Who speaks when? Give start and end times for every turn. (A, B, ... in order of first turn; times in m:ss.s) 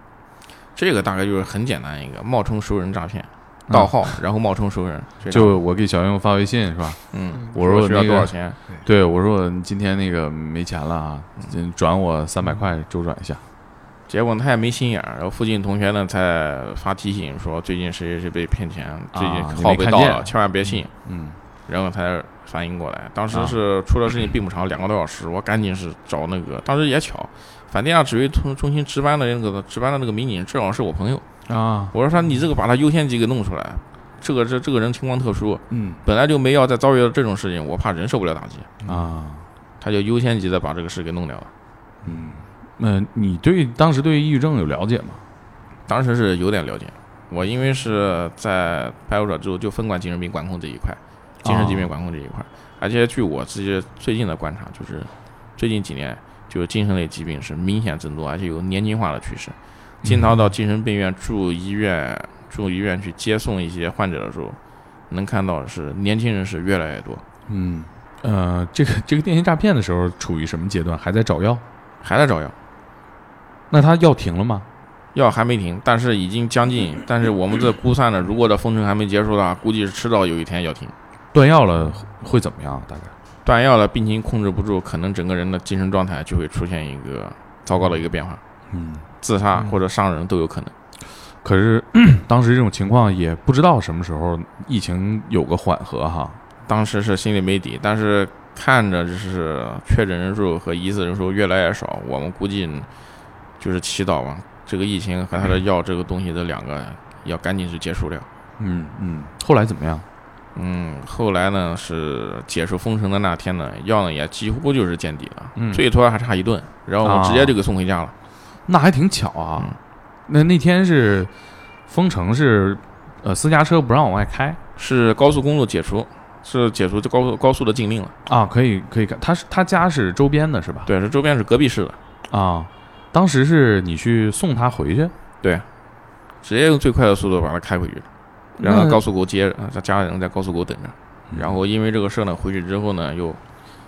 0:00.8-0:05.6 A
0:03.7-0:04.1 B
0:05.3-0:13.4 B
0:07.1-0:08.6 A
0:14.1-0:20.9 A
0:19.1-0:20.3 B
0:21.0-0:21.4 B
0:21.7-0:31.2 A
0:23.3-0:23.6 B
0:31.5-0:31.9 B
0:31.9-0:38.7 A
0:35.7-0:36.0 B
0:38.8-0:39.4 B
0:39.8-0:41.5 A
0:42.0-0:45.2 B
0:45.9-1:04.6 A
0:51.4-0:51.9 B
1:05.1-1:07.2 A
1:07.5-1:11.6 B
1:12.0-1:12.5 A
1:13.7-1:14.7 B
1:15.1-1:20.9 A
1:21.3-1:23.1 B
1:23.4-1:28.4 A
1:28.7-1:29.0 B
1:29.2-1:30.7 A
1:31.4-1:36.4 B
1:36.7-1:42.9 A
1:43.6-1:48.3 A
1:48.6-1:50.0 B
1:50.5-1:58.1 A
1:55.6-1:55.8 B
1:57.0-1:57.5 B
1:58.7-1:59.8 B
2:00.3-2:01.3 B
2:01.9-2:04.6 B
2:04.8-2:08.1 A
2:08.2-2:10.9 B
2:10.8-2:12.0 A
2:12.3-2:15.1 B
2:16.4-2:18.1 A
2:18.6-2:19.0 B
2:18.6-2:23.4 A